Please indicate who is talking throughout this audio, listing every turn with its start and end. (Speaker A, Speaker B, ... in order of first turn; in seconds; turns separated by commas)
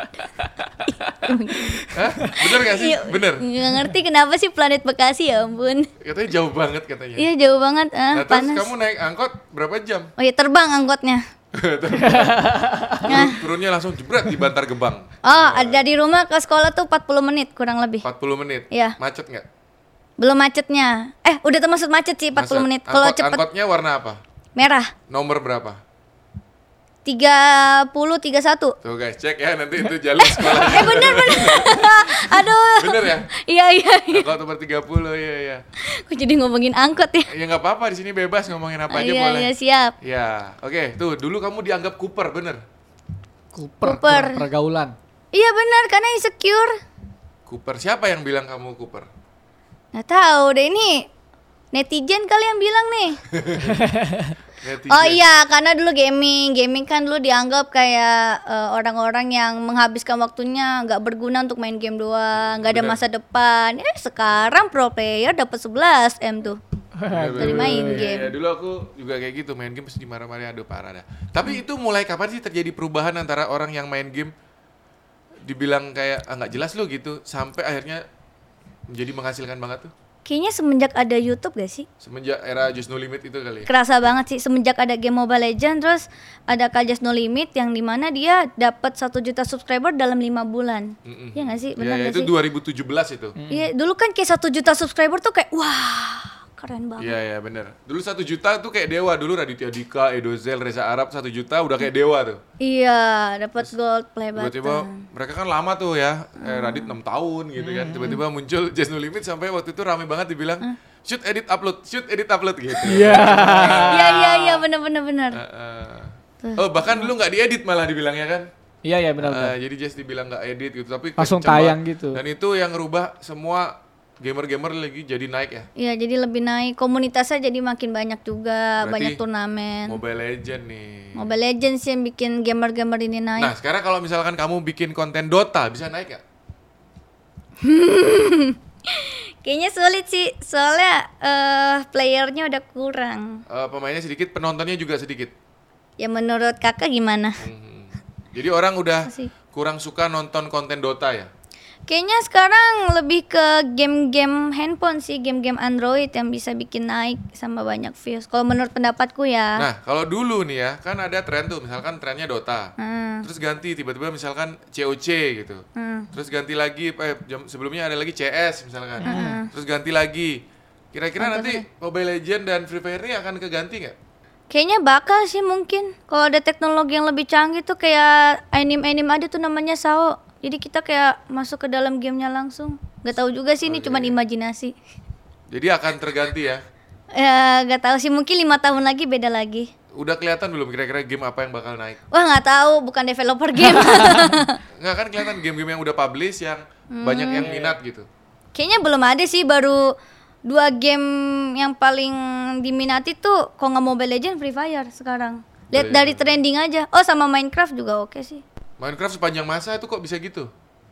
Speaker A: 0.8-5.9, Speaker B: 1.9-3.5, Speaker B: 6.0-7.3, Speaker A: 7.2-8.7, Speaker B: 8.1-10.1, Speaker A: 10.2-11.2, Speaker B: 11.5-15.8, Speaker C: 12.0-13.2, Speaker A: 13.0-13.4, Speaker A: 15.2-18.1, Speaker B: 18.0-19.5, Speaker A: 18.7-19.0, Speaker A: 20.2-23.4, Speaker B: 22.4-24.2, Speaker A: 24.6-24.9, Speaker B: 25.1-25.8, Speaker A: 27.1-28.8, Speaker B: 28.8-33.3, Speaker A: 30.3-34.3, Speaker B: 34.1-35.6, Speaker A: 35.8-37.3, Speaker B: 37.3-42.6, Speaker A: 38.9-39.9, Speaker C: 43.5-45.0, Speaker A: 43.8-44.5, Speaker A: 45.3-46.8, Speaker B: 47.5-49.1, Speaker A: 49.9-51.1, Speaker A: 51.7-53.2, Speaker B: 53.3-53.8, Speaker C: 53.6-54.4, Speaker B: 54.6-55.2, Speaker A: 54.9-66.6, Speaker B: 62.4-63.0, Speaker C: 67.0-68.1, Speaker B: 67.1-74.3, Speaker A: 67.4-68.3, Speaker B: 75.5-78.0, Speaker B: 78.9-79.9, Speaker A: 80.2-81.9, Speaker B: 82.0-83.7, Speaker A: 83.7-92.3, Speaker B: 91.0-93.4, Speaker C: 93.4-93.7, Speaker A: 93.5-97.2, Speaker B: 97.0-102.4, Speaker A: 102.6-105.1, Speaker B: 104.3-114.6, Speaker A: 106.4-106.9, Speaker C: 107.6-108.2, Speaker C: 112.8-114.3, Speaker A: 113.9-115.4, Speaker B: 115.3-118.5, Speaker A: 116.4-117.1, Speaker C: 118.8-119.5, Speaker B: 119.2-125.7, Speaker C: 121.2-122.2, Speaker A: 125.8-130.0, Speaker B: 128.8-129.2, Speaker B: 129.9-131.3, Speaker A: 131.2-133.5, Speaker B: 133.4-136.2, Speaker A: 137.6-143.4, Speaker B: 143.5-145.3, Speaker A: 146.0-147.4, Speaker B: 147.4-151.3, Speaker A: 149.1-149.3, Speaker A: 151.9-159.7, Speaker B: 159.6-174.0, Speaker A: 162.8-163.2, Speaker A: 165.8-166.1, Speaker C: 169.0-169.4, Speaker A: 169.1-169.5, Speaker A: 171.2-171.7, Speaker A: 174.5-184.8, Speaker B: 183.7-184.2, Speaker B: 185.5-186.6, Speaker A: 187.1-189.7, Speaker B: 189.9-192.0, Speaker A: 192.1-194.6, Speaker C: 193.6-194.3, Speaker B: 194.7-198.1, Speaker A: 196.9-197.5, Speaker C: 197.3-197.8, Speaker A: 198.6-208.4, Speaker B: 205.7-206.4, Speaker B: 208.8-210.5